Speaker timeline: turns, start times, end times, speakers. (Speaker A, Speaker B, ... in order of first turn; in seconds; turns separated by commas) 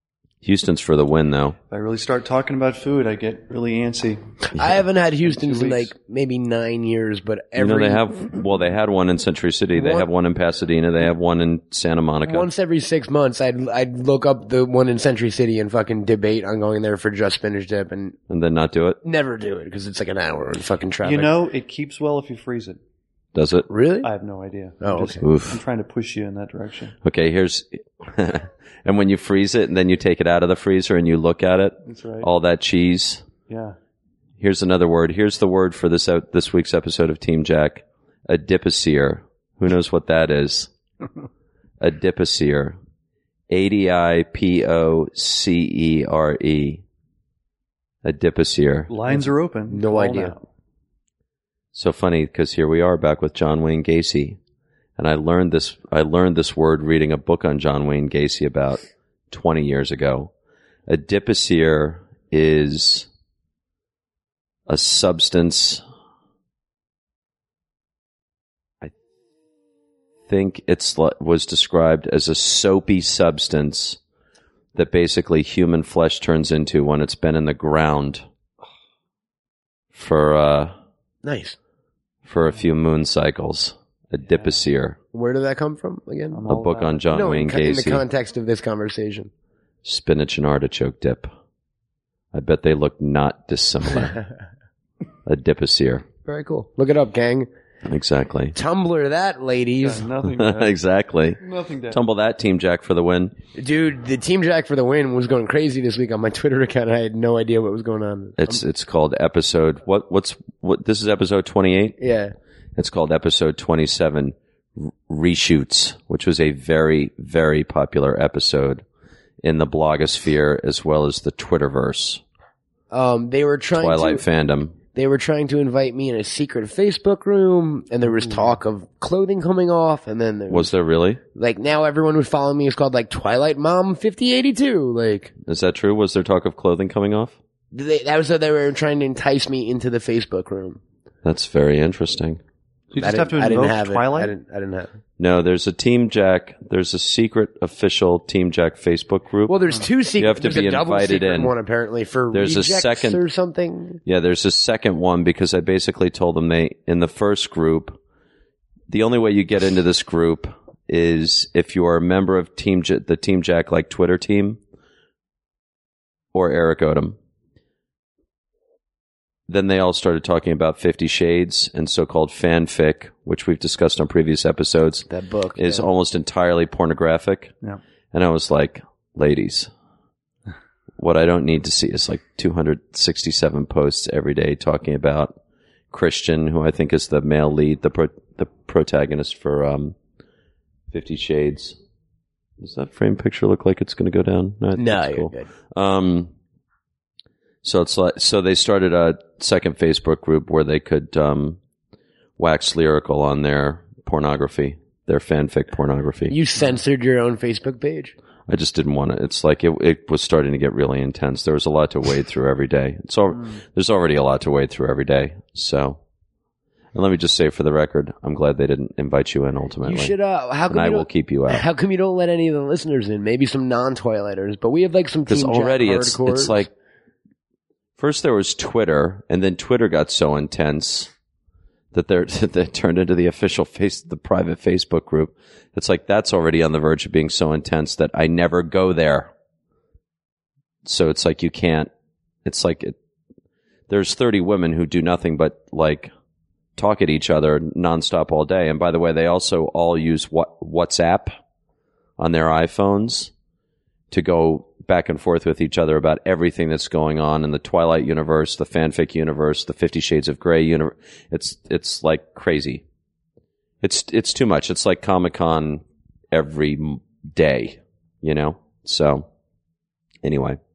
Speaker A: 0.4-1.6, Speaker B: 1.7-4.2, Speaker C: 4.6-8.0, Speaker B: 5.3-5.9, Speaker A: 7.6-12.5, Speaker C: 9.8-10.1, Speaker C: 12.2-18.2, Speaker A: 18.3-19.0, Speaker C: 19.0-21.3, Speaker B: 21.0-22.8, Speaker A: 23.4-23.7, Speaker C: 23.7-24.1, Speaker B: 24.0-26.9, Speaker C: 24.8-25.2, Speaker A: 25.2-25.6, Speaker A: 27.0-33.2, Speaker B: 31.9-32.3, Speaker B: 33.5-33.8, Speaker A: 34.4-40.7, Speaker A: 41.8-42.8, Speaker A: 43.5-46.8, Speaker A: 48.0-48.9, Speaker B: 48.9-50.4, Speaker C: 49.1-50.3, Speaker A: 51.7-54.4, Speaker A: 55.0-60.3, Speaker A: 60.9-63.1, Speaker A: 64.7-65.8, Speaker A: 70.3-74.0, Speaker A: 74.8-78.2, Speaker A: 79.9-80.7, Speaker C: 81.2-81.6, Speaker A: 82.3-85.0, Speaker C: 85.1-86.4, Speaker B: 86.3-87.0, Speaker A: 86.5-88.0, Speaker C: 87.1-89.3, Speaker A: 89.8-91.3, Speaker A: 92.3-94.2, Speaker A: 95.3-96.0, Speaker C: 96.2-97.5, Speaker A: 97.8-98.5, Speaker C: 98.5-100.1, Speaker B: 99.8-100.8, Speaker A: 100.3-103.3, Speaker B: 101.4-102.0, Speaker C: 103.6-108.6, Speaker A: 108.4-112.0, Speaker C: 112.0-112.3, Speaker A: 112.8-118.8, Speaker A: 119.4-122.2, Speaker C: 122.9-124.2, Speaker A: 123.7-124.8, Speaker C: 124.9-130.7, Speaker A: 130.5-131.2, Speaker C: 131.3-135.3, Speaker A: 135.5-137.4, Speaker C: 137.7-140.8, Speaker A: 141.2-142.4, Speaker B: 142.9-144.3, Speaker C: 143.0-144.9, Speaker A: 145.2-149.6, Speaker C: 149.5-154.0, Speaker A: 150.2-151.5, Speaker A: 152.3-153.2, Speaker A: 154.1-158.0, Speaker A: 158.9-164.6, Speaker A: 166.3-167.2, Speaker A: 169.5-177.5, Speaker C: 175.1-175.9, Speaker A: 178.1-179.7, Speaker A: 181.0-185.3, Speaker A: 185.9-189.9, Speaker A: 190.9-191.8, Speaker A: 192.6-196.3, Speaker C: 194.8-195.5, Speaker A: 197.6-201.6, Speaker A: 202.4-206.4, Speaker C: 206.3-208.1, Speaker A: 208.5-216.0, Speaker A: 216.9-220.1, Speaker C: 219.8-226.7, Speaker A: 220.7-221.7, Speaker A: 225.3-226.7, Speaker A: 228.0-231.1, Speaker A: 231.9-239.3, Speaker A: 240.8-241.9, Speaker A: 242.4-243.0, Speaker A: 243.9-246.1, Speaker A: 246.8-251.3, Speaker A: 252.2-253.3, Speaker A: 254.1-262.8, Speaker A: 263.8-269.2, Speaker A: 270.2-270.6